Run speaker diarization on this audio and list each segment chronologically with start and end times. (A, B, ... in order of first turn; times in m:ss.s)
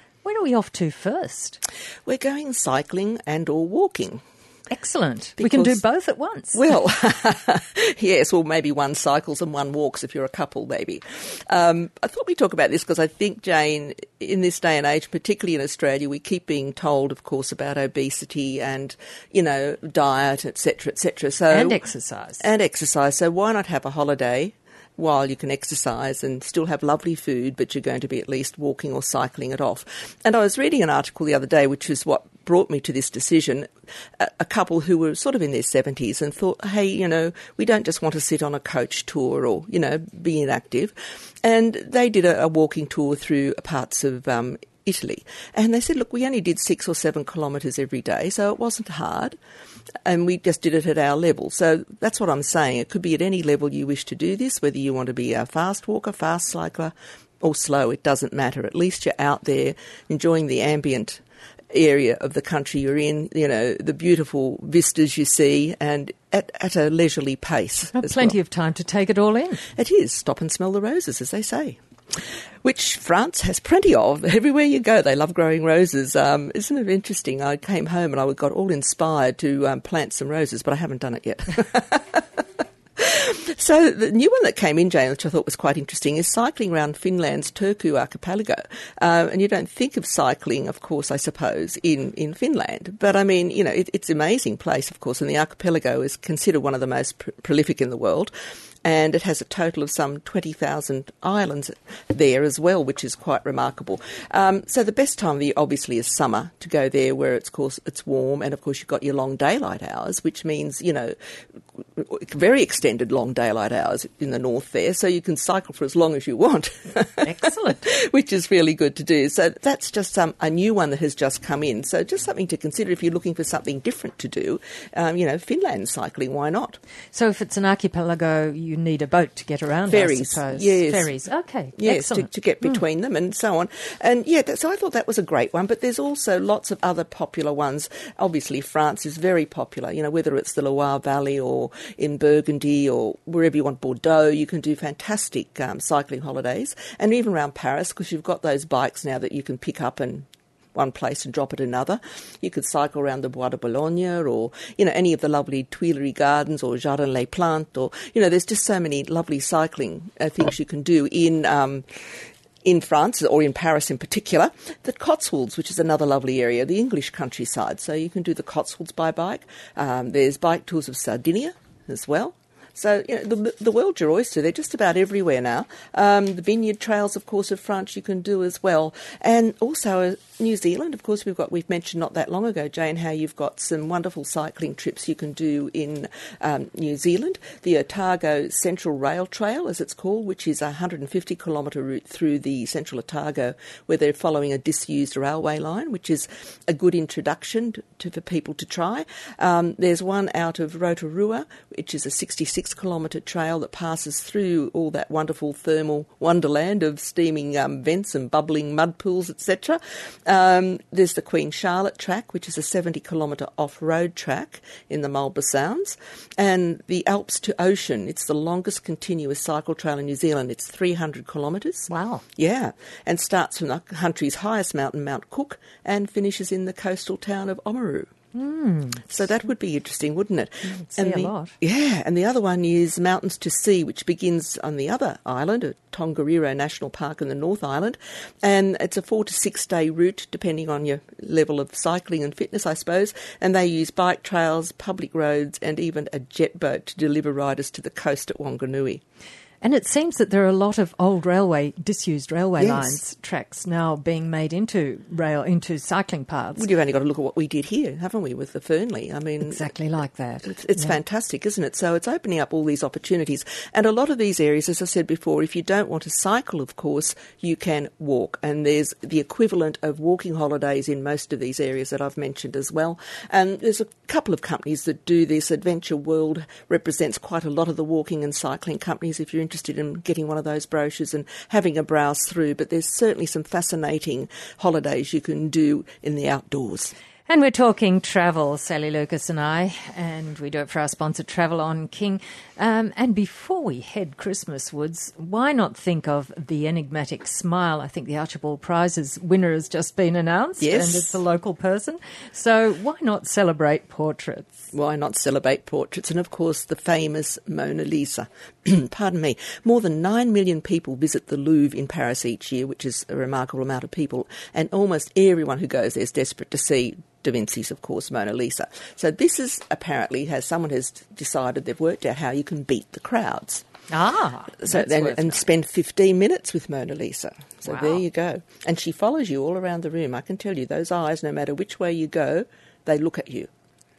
0:00.2-0:01.6 A
0:02.1-0:04.2 B
0:04.7-0:06.6 A
0:05.4-0:05.8 B
0:06.5-0:21.8 B
0:21.5-0:22.4 A
0:22.4-0:49.4 B
0:50.1-1:08.4 B
1:07.9-1:09.6 A
1:09.8-1:11.8 B
1:12.6-1:22.4 B
1:23.0-1:38.3 B
1:38.8-1:51.2 B
1:51.8-2:06.8 B
1:57.2-1:57.9 A
2:07.1-2:12.7 A
2:09.9-2:11.1 B
2:11.8-2:41.9 B
2:42.6-3:48.1 B
3:41.9-3:42.2 A
3:48.3-3:49.1 A
3:49.1-4:09.0 B
3:50.8-3:51.5 A
4:09.6-4:16.6 A
4:12.6-4:13.0 B
4:16.6-4:19.6 B
4:19.4-4:20.9 A
4:20.4-4:46.9 B
4:47.3-5:04.7 A
5:00.6-5:01.2 B
5:04.7-5:23.6 B
5:23.9-5:25.4 A
5:24.6-5:33.5 B
5:27.7-5:28.0 A